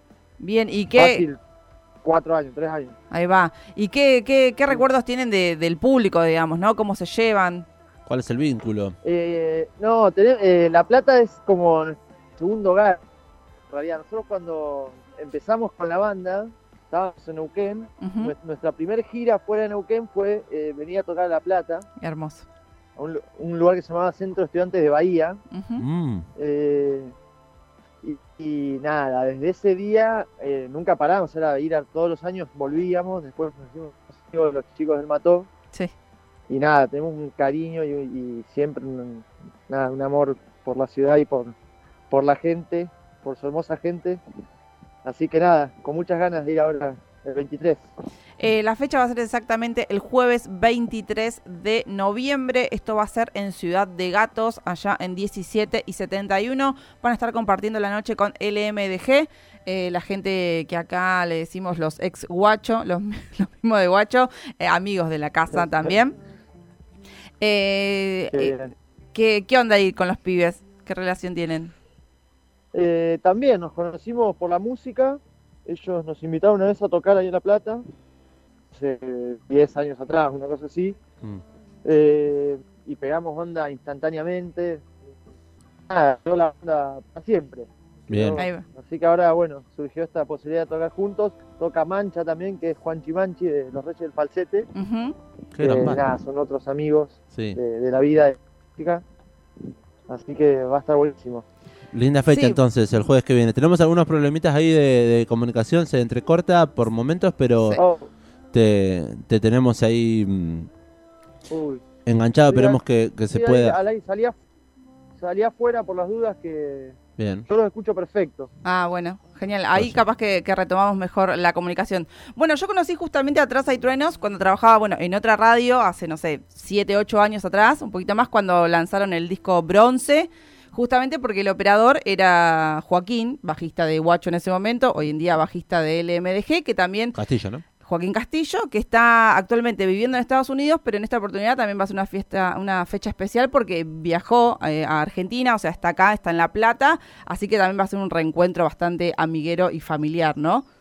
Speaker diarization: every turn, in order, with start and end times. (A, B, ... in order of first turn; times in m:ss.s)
0:00.4-0:01.2 A
0:01.0-0:01.4 B
0:02.0-0:03.0 B
0:03.1-0:07.7 A
0:08.1-0:09.0 C
0:09.0-0:13.0 B
0:13.7-0:21.9 B
0:18.0-0:18.3 A
0:22.0-0:22.4 A
0:23.0-0:25.4 B
0:25.5-0:25.8 A
0:25.8-0:26.3 C
0:26.4-0:27.1 B
0:28.0-0:35.5 B
0:36.5-0:41.6 B
0:42.1-0:44.2 B
0:45.0-0:47.8 B
0:48.4-1:06.2 A
1:05.5-1:05.9 B
1:07.4-1:08.6 A
1:08.3-1:08.7 B
1:09.1-1:11.7 A
1:12.7-1:17.8 B
1:18.7-1:21.0 B
1:21.8-1:24.8 B
1:25.9-1:34.7 B
1:28.1-1:28.4 C
1:28.4-1:28.6 A
1:34.8-1:35.2 A
1:35.6-1:36.0 C
1:35.6-1:39.0 B
1:37.3-1:37.6 C
1:40.1-1:41.4 B
1:41.9-1:47.8 C
1:42.3-1:42.6 A
1:47.8-1:48.1 B
1:48.5-1:50.7 C
1:51.5-1:51.8 B
1:52.1-1:53.8 C
1:52.5-1:54.4 B
1:55.2-1:57.0 B
1:57.2-1:57.5 C
1:57.5-1:58.5 B
1:58.6-2:17.2 A
2:17.2-2:17.6 C
2:17.8-2:30.6 A